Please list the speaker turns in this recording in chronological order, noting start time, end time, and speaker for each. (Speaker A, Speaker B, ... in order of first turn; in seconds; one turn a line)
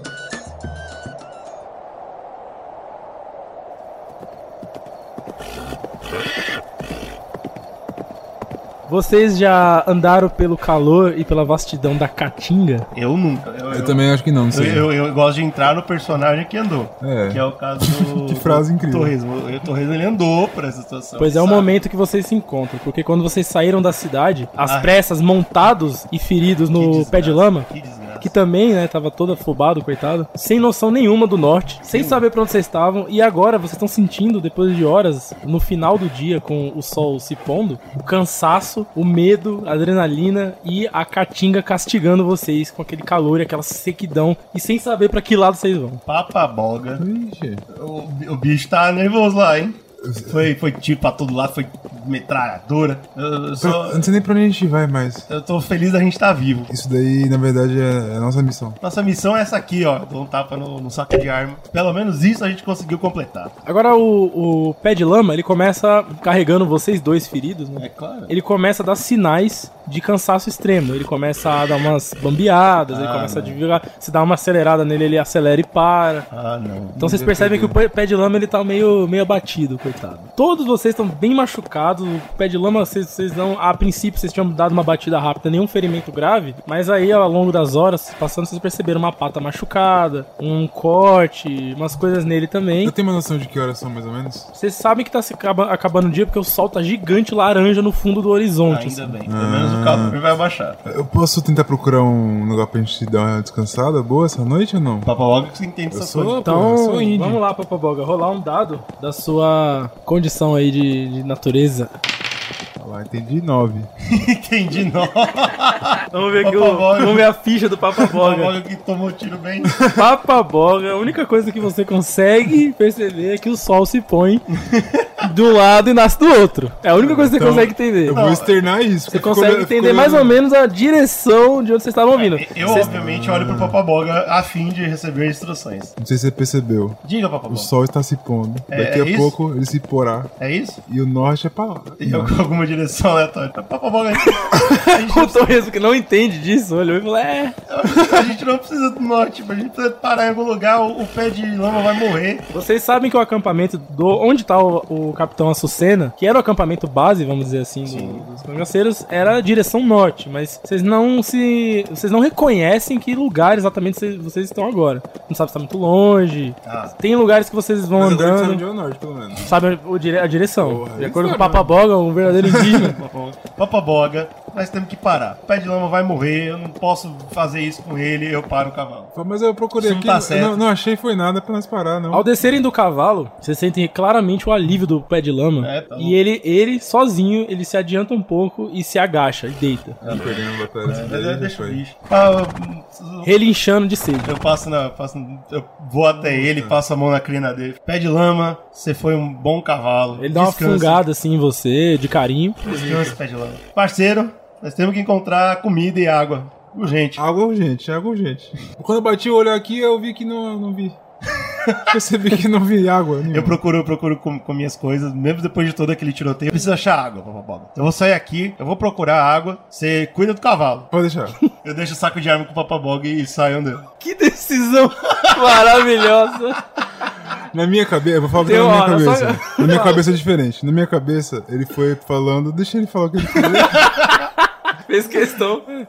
Speaker A: 8.9-12.9
Speaker B: 12.9-21.8
Speaker C: 13.7-14.9
Speaker C: 17.0-19.1
Speaker A: 21.2-27.7
Speaker B: 24.6-25.0
Speaker B: 26.8-28.3
Speaker A: 28.2-46.0
Speaker B: 31.9-32.2
Speaker B: 46.1-47.0
Speaker C: 47.0-47.6
Speaker B: 47.7-54.1
Speaker C: 50.0-50.5
Speaker C: 53.6-55.3
Speaker B: 55.3-56.7
Speaker C: 56.7-58.8
Speaker B: 58.8-63.5
Speaker A: 63.7-76.3
Speaker B: 67.8-68.3
Speaker B: 72.9-73.6
Speaker B: 76.3-77.0
Speaker C: 77.0-77.8
Speaker A: 77.0-92.9
Speaker C: 92.8-94.5
Speaker A: 94.5-99.2
Speaker B: 98.7-100.8
Speaker C: 99.3-100.2
Speaker C: 100.9-105.1
Speaker B: 105.0-106.5
Speaker C: 105.9-107.4
Speaker A: 106.4-111.9
Speaker C: 112.8-113.9
Speaker B: 114.1-117.3
Speaker A: 116.1-118.5
Speaker B: 118.0-119.8
Speaker C: 119.7-120.0
Speaker A: 119.9-124.5
Speaker B: 124.5-125.1
Speaker A: 125.2-128.2
Speaker C: 127.0-130.4
Speaker B: 128.1-128.6
Speaker A: 129.1-132.9
Speaker B: 132.1-135.9
Speaker C: 132.6-133.8
Speaker C: 136.0-137.0
Speaker B: 137.0-137.7
Speaker C: 137.5-140.3
Speaker B: 138.7-139.3
Speaker B: 140.4-140.8
Speaker C: 140.9-142.3
Speaker B: 142.0-145.6
Speaker A: 144.7-147.6
Speaker B: 147.7-152.4
Speaker A: 152.5-168.6
Speaker B: 157.9-158.3
Speaker B: 166.7-167.0
Speaker C: 167.9-169.5
Speaker A: 169.4-173.0
Speaker C: 170.6-171.8
Speaker C: 172.4-173.0
Speaker B: 172.8-179.1
Speaker C: 179.2-182.3
Speaker B: 179.8-180.6
Speaker A: 182.1-190.0
Speaker B: 185.6-186.2
Speaker B: 190.0-193.3
Speaker C: 190.1-191.8
Speaker A: 193.2-194.4
Speaker B: 194.2-201.0
Speaker C: 196.2-196.8
Speaker A: 200.2-203.2
Speaker B: 202.7-207.2
Speaker C: 207.2-211.0
Speaker B: 211.4-211.9
Speaker C: 211.9-213.6
Speaker B: 213.3-220.9
Speaker C: 220.9-221.4
Speaker B: 221.6-223.9
Speaker A: 224.0-226.6
Speaker B: 225.1-225.8
Speaker C: 227.5-233.9
Speaker A: 228.4-230.0
Speaker B: 233.7-234.2
Speaker A: 234.7-235.7